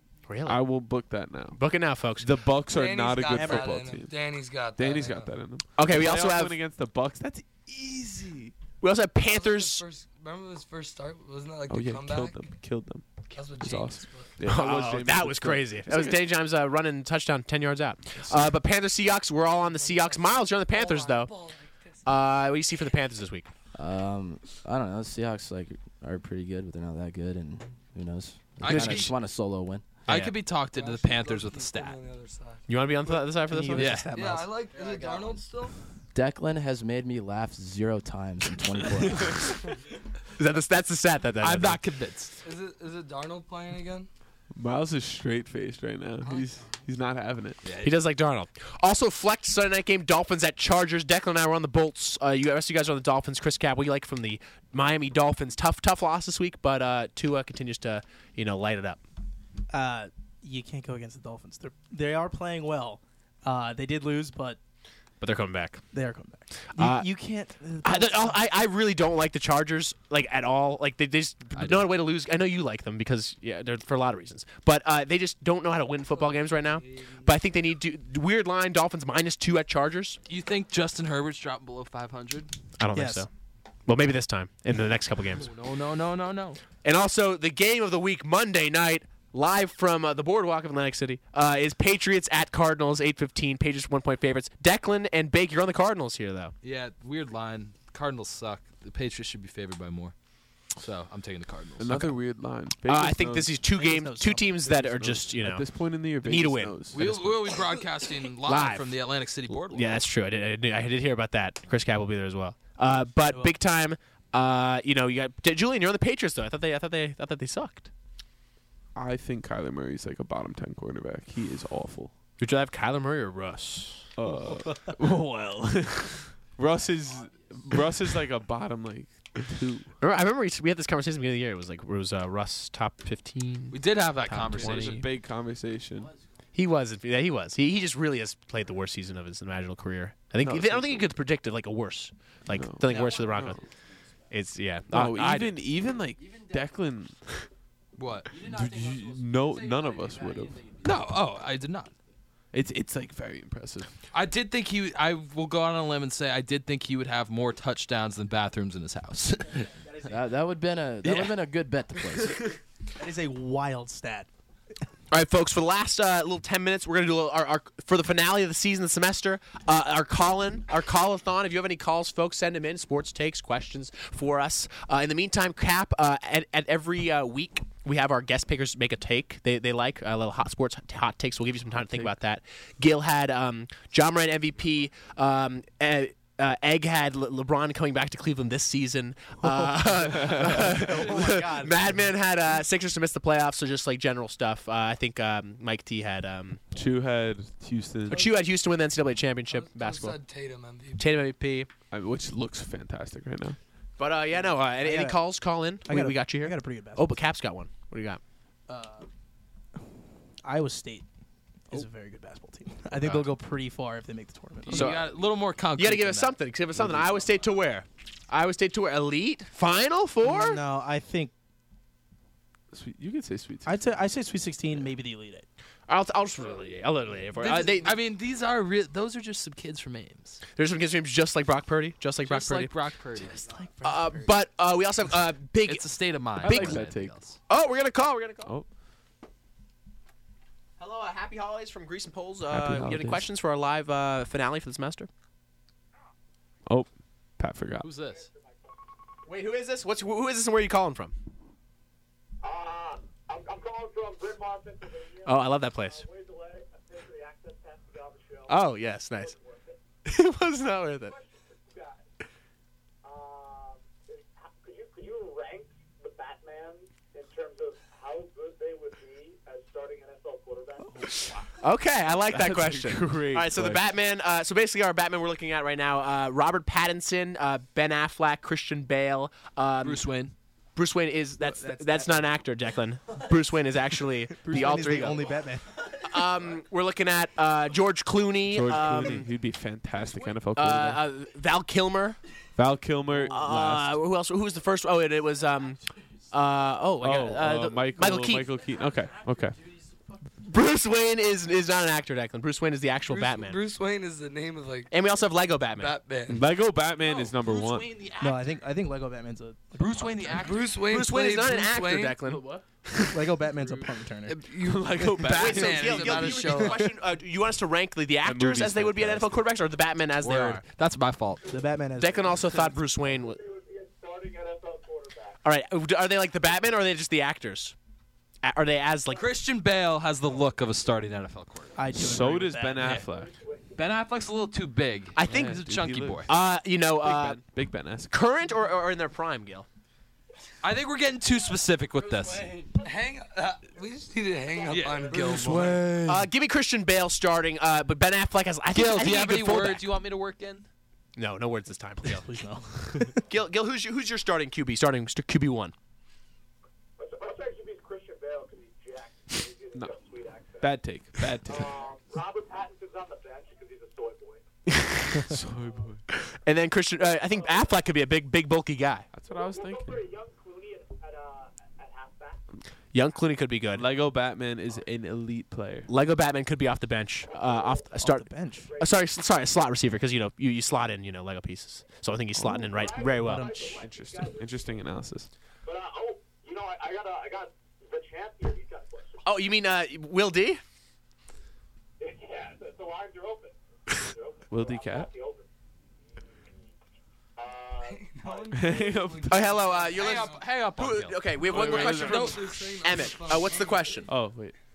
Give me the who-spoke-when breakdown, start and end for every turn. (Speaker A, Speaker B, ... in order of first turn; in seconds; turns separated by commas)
Speaker A: 0.2-0.6, Speaker B: 0.5-1.6, Speaker A: 1.5-2.3, Speaker B: 2.2-8.5, Speaker C: 2.7-5.4, Speaker D: 3.3-3.8, Speaker A: 5.8-6.6, Speaker A: 8.8-9.8, Speaker C: 9.2-12.5, Speaker B: 11.7-16.2, Speaker C: 13.3-14.4, Speaker A: 14.4-21.3, Speaker B: 18.2-18.5, Speaker C: 19.6-22.1, Speaker A: 22.0-23.5, Speaker E: 23.7-29.8, Speaker F: 28.6-29.2, Speaker A: 28.6-29.1, Speaker F: 30.1-32.0, Speaker A: 30.1-30.4, Speaker C: 30.7-32.6, Speaker A: 32.7-34.0, Speaker D: 33.4-34.6, Speaker F: 33.7-34.2, Speaker C: 34.1-35.8, Speaker E: 34.8-35.4, Speaker E: 36.1-39.5, Speaker A: 40.4-41.8, Speaker F: 41.4-42.4, Speaker C: 42.4-44.1, Speaker B: 44.5-47.6, Speaker C: 46.2-46.8, Speaker F: 47.6-48.0, Speaker A: 47.8-59.0, Speaker D: 59.7-64.6, Speaker A: 65.2-65.8, Speaker D: 65.9-68.4, Speaker A: 66.8-67.1, Speaker A: 67.8-80.2, Speaker F: 71.6-71.9, Speaker C: 76.1-77.3, Speaker F: 80.3-82.5, Speaker A: 82.8-83.3, Speaker D: 82.9-83.2, Speaker A: 83.9-85.5, Speaker F: 85.4-86.6, Speaker A: 86.8-96.5, Speaker F: 96.6-100.1, Speaker F: 100.7-102.1, Speaker B: 101.8-103.7, Speaker A: 102.8-106.7, Speaker D: 103.7-105.1, Speaker B: 104.8-107.5, Speaker F: 106.9-110.0, Speaker A: 108.5-108.9, Speaker A: 109.7-117.9, Speaker B: 118.9-122.1, Speaker A: 122.4-124.1, Speaker B: 124.2-129.9, Speaker A: 130.0-135.1, Speaker F: 133.7-135.0, Speaker B: 134.6-136.1, Speaker A: 136.5-143.6, Speaker B: 140.4-141.1, Speaker B: 142.5-143.6, Speaker A: 144.3-145.6, Speaker B: 144.9-147.3, Speaker F: 147.9-148.4, Speaker B: 148.3-150.7, Speaker F: 150.8-151.9, Speaker B: 152.5-153.9, Speaker F: 154.1-159.7, Speaker E: 160.1-162.4, Speaker D: 163.0-164.3, Speaker A: 165.1-196.6, Speaker B: 181.8-182.1, Speaker B: 190.0-191.1, Speaker B: 196.7-198.3, Speaker A: 198.1-200.2, Speaker C: 198.1-198.4, Speaker C: 199.5-201.0, Speaker A: 200.9-201.7, Speaker B: 201.9-203.6, Speaker A: 204.0-208.2, Speaker D: 204.8-205.2, Speaker D: 205.8-207.1, Speaker D: 208.7-209.1, Speaker D: 210.4-211.1, Speaker D: 211.7-214.9, Speaker F: 214.6-216.4, Speaker A: 214.7-215.1, Speaker A: 215.8-220.6, Speaker B: 216.7-217.2, Speaker D: 220.2-221.3, Speaker B: 222.7-224.0, Speaker D: 223.6-225.4, Speaker A: 225.9-227.9, Speaker F: 227.4-230.4, Speaker A: 230.6-232.7, Speaker F: 232.2-233.4, Speaker D: 233.3-234.3, Speaker A: 233.8-235.8, Speaker F: 235.6-237.4, Speaker B: 236.4-237.1, Speaker A: 236.4-236.8, Speaker A: 237.5-238.5, Speaker A: 240.8-245.1, Speaker B: 242.5-243.3, Speaker B: 246.7-247.9, Speaker F: 247.8-248.3, Speaker G: 248.0-248.8, Speaker A: 249.2-251.1, Speaker G: 252.4-259.8, Speaker A: 255.2-256.0, Speaker A: 258.5-259.4, Speaker A: 260.0-261.1, Speaker G: 260.9-262.1, Speaker G: 263.0-271.3, Speaker A: 271.6-280.0, Speaker B: 272.3-273.9, Speaker F: 279.8-280.3, Speaker A: 280.8-285.3, Speaker D: 281.8-282.1, Speaker D: 284.4-285.6, Speaker A: 286.0-289.3, Speaker B: 288.5-291.0, Speaker A: 290.5-292.2, Speaker B: 292.6-294.0, Speaker A: 293.3-298.5, Speaker B: 297.0-299.6, Speaker A: 300.5-303.6, Speaker C: 303.1-304.9, Speaker A: 304.9-305.9, Speaker C: 305.7-306.4, Speaker B: 306.3-307.9, Speaker F: 307.0-308.6, Speaker D: 308.2-310.6, Speaker F: 309.8-310.8, Speaker C: 310.4-312.2, Speaker A: 310.8-313.1, Speaker F: 312.3-312.6, Speaker D: 313.1-314.4, Speaker F: 313.5-313.9, Speaker C: 314.3-316.9, Speaker B: 314.6-316.1, Speaker A: 315.2-320.6, Speaker D: 316.4-316.9, Speaker B: 318.2-319.4, Speaker F: 320.2-321.5, Speaker D: 321.5-322.6, Speaker A: 322.0-323.4, Speaker G: 323.0-325.4, Speaker A: 325.4-327.8, Speaker A: 328.4-329.2, Speaker F: 329.1-331.8, Speaker D: 331.7-333.0, Speaker B: 331.9-333.4, Speaker F: 332.8-333.1, Speaker G: 333.0-333.8, Speaker F: 333.7-336.3, Speaker A: 335.1-335.6, Speaker B: 335.2-336.4, Speaker A: 336.3-337.4, Speaker B: 337.0-338.1, Speaker A: 338.1-339.7, Speaker F: 340.6-342.7, Speaker C: 342.6-345.8, Speaker G: 344.5-344.9, Speaker F: 344.7-345.8, Speaker D: 345.1-346.3, Speaker A: 346.1-349.9, Speaker F: 348.7-350.7, Speaker A: 351.1-352.3, Speaker D: 352.0-353.2, Speaker A: 353.3-355.7, Speaker G: 357.0-360.9, Speaker B: 360.6-361.8, Speaker G: 361.4-364.4, Speaker B: 365.2-366.0, Speaker G: 365.5-365.9, Speaker A: 366.1-369.1, Speaker G: 367.0-367.8, Speaker B: 369.1-370.0, Speaker G: 369.3-372.4, Speaker A: 372.9-373.9, Speaker B: 373.7-375.9, Speaker A: 375.9-383.8, Speaker G: 377.2-378.0, Speaker D: 378.0-378.7, Speaker G: 378.6-379.1, Speaker B: 382.3-382.7, Speaker G: 382.7-384.8, Speaker D: 383.1-383.7, Speaker B: 383.4-385.3, Speaker G: 385.6-389.3, Speaker A: 389.2-390.6, Speaker G: 392.0-395.4, Speaker B: 394.5-395.1, Speaker G: 396.1-396.7, Speaker G: 397.4-398.6, Speaker C: 397.8-400.4, Speaker B: 398.5-399.7, Speaker A: 399.3-404.1, Speaker F: 399.9-402.5, Speaker B: 401.4-402.6, Speaker C: 401.6-404.0, Speaker B: 404.1-404.5